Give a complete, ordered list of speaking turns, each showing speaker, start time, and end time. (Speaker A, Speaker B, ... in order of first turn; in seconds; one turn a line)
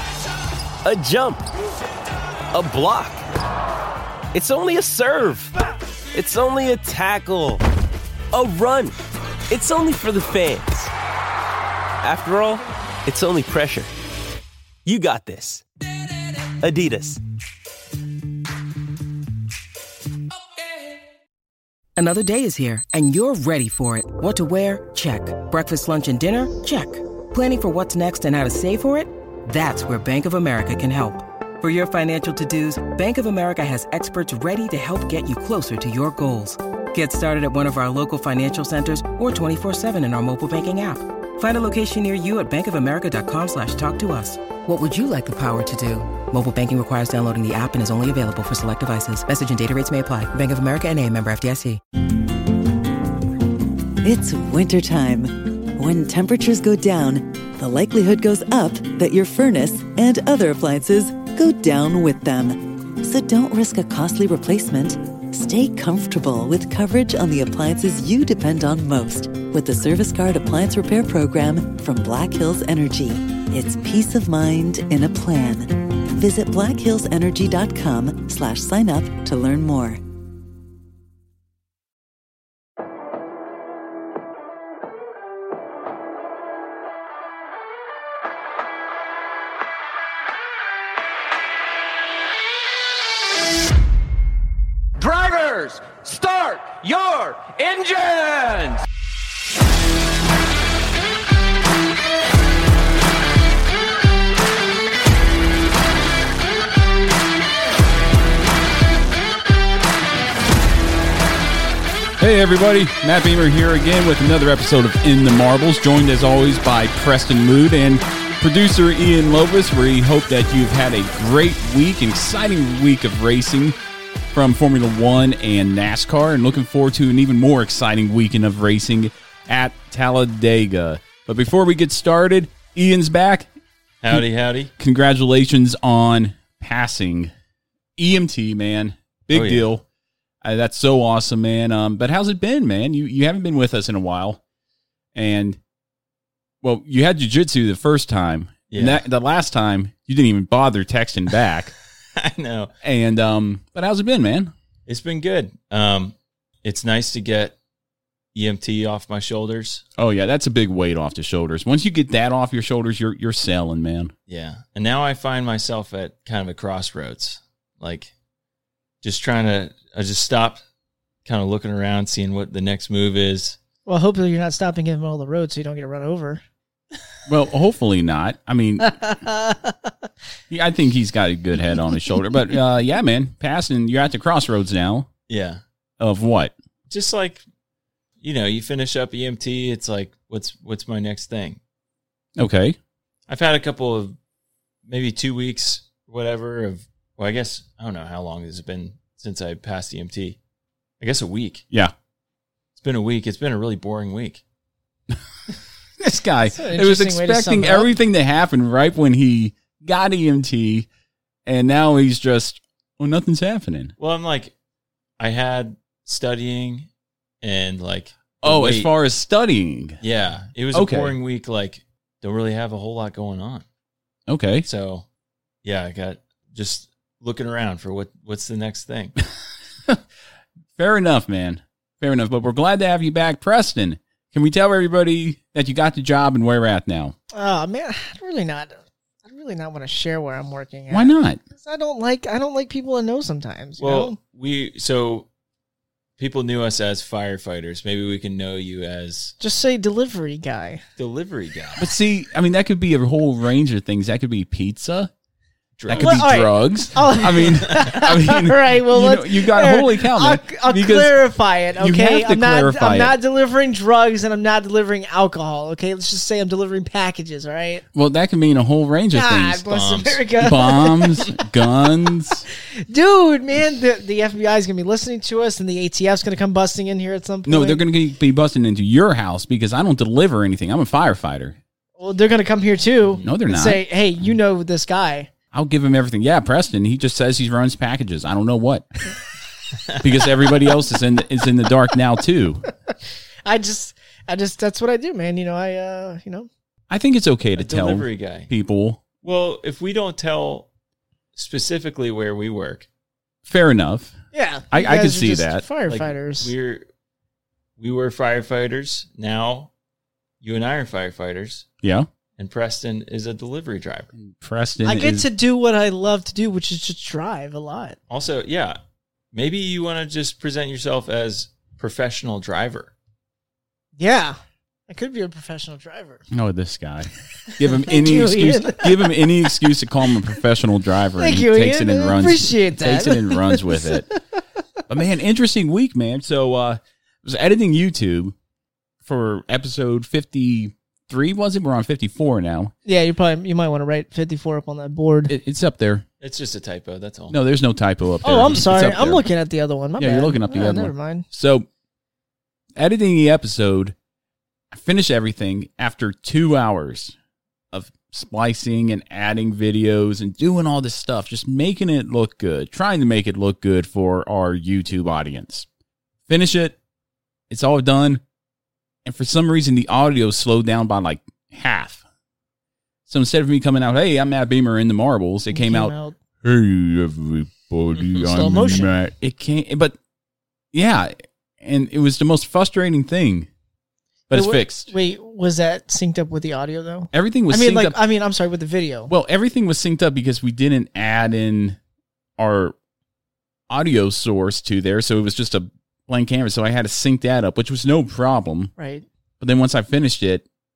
Speaker A: 0.8-1.5
Speaker A: 2.5-3.2
Speaker A: 4.3-5.5
Speaker A: 6.1-7.6
Speaker A: 8.3-9.0
Speaker A: 9.5-10.9
Speaker A: 12.0-13.9
Speaker A: 14.8-15.6
Speaker A: 16.1-17.2
Speaker B: 21.9-51.8
Speaker C: 54.0-80.0
Speaker A: 95.0-98.8
Speaker D: 112.2-123.8
Speaker D: 124.3-133.5
Speaker E: 134.0-134.7
Speaker D: 134.8-137.3
Speaker D: 138.0-139.8
Speaker E: 139.3-139.7
Speaker D: 140.4-144.4
Speaker D: 145.1-145.6
Speaker D: 146.6-151.7
Speaker E: 148.7-149.0
Speaker E: 152.2-152.7
Speaker D: 152.8-154.5
Speaker E: 154.9-157.5
Speaker E: 158.3-159.8
Speaker D: 160.0-164.1
Speaker E: 164.3-168.1
Speaker E: 169.0-170.6
Speaker E: 171.2-173.6
Speaker F: 173.8-176.4
Speaker D: 177.3-179.1
Speaker F: 179.2-179.7
Speaker D: 180.5-185.1
Speaker E: 185.3-185.6
Speaker D: 186.0-186.5
Speaker E: 186.9-187.4
Speaker E: 188.2-191.6
Speaker D: 192.4-192.8
Speaker E: 193.3-194.2
Speaker E: 194.9-200.4
Speaker E: 201.0-201.6
Speaker E: 202.8-204.4
Speaker D: 206.0-210.9
Speaker F: 206.5-207.9
Speaker D: 211.4-213.9
Speaker E: 214.0-214.5
Speaker E: 215.2-216.9
Speaker E: 217.4-218.9
Speaker D: 218.4-220.0
Speaker E: 220.0-223.6
Speaker D: 220.7-221.1
Speaker D: 224.3-224.7
Speaker E: 224.6-225.0
Speaker E: 225.6-229.2
Speaker D: 230.8-237.1
Speaker F: 237.3-244.2
Speaker D: 240.9-241.4
Speaker E: 243.8-245.3
Speaker E: 246.2-249.3
Speaker F: 249.4-250.8
Speaker E: 251.0-251.9
Speaker D: 251.8-255.1
Speaker E: 255.8-256.3
Speaker D: 255.9-263.1
Speaker F: 256.0-267.9
Speaker D: 267.9-269.6
Speaker F: 269.1-271.4
Speaker E: 269.7-270.3
Speaker D: 270.4-272.4
Speaker F: 272.8-277.8
Speaker D: 277.4-281.6
Speaker F: 282.0-285.3
Speaker E: 283.0-283.3
Speaker D: 283.2-283.8
Speaker D: 285.5-288.9
Speaker E: 289.9-290.3
Speaker D: 290.0-292.6
Speaker F: 293.4-296.5
Speaker D: 296.9-299.0
Speaker E: 297.6-298.5
Speaker E: 299.2-300.7
Speaker E: 301.4-302.9
Speaker D: 303.4-304.2
Speaker F: 304.3-306.5
Speaker D: 304.7-305.6
Speaker E: 305.9-306.9
Speaker E: 307.8-309.7
Speaker E: 310.4-311.6
Speaker E: 312.4-314.1
Speaker D: 314.1-315.2
Speaker F: 314.8-318.0
Speaker E: 318.1-318.8
Speaker E: 319.3-322.9
Speaker F: 324.0-324.4
Speaker F: 324.9-326.2
Speaker D: 326.3-334.1
Speaker F: 327.4-329.3
Speaker F: 331.2-334.2
Speaker D: 334.9-338.3
Speaker D: 339.0-342.7
Speaker F: 342.9-345.3
Speaker D: 345.3-346.0
Speaker E: 346.2-347.4
Speaker D: 347.3-349.3
Speaker F: 348.2-351.2
Speaker D: 350.0-351.7
Speaker D: 352.8-353.9
Speaker D: 354.7-357.1
Speaker D: 357.7-365.6
Speaker D: 366.3-366.8
Speaker D: 367.5-368.2
Speaker D: 369.0-372.0
Speaker D: 373.1-379.9
Speaker F: 375.5-376.1
Speaker F: 378.2-378.9
Speaker D: 380.7-383.5
Speaker D: 384.3-384.9
Speaker F: 384.3-389.1
Speaker D: 387.1-388.0
Speaker D: 389.1-391.8
Speaker D: 392.4-392.7
Speaker D: 393.7-398.7
Speaker F: 398.8-399.0
Speaker D: 399.4-400.4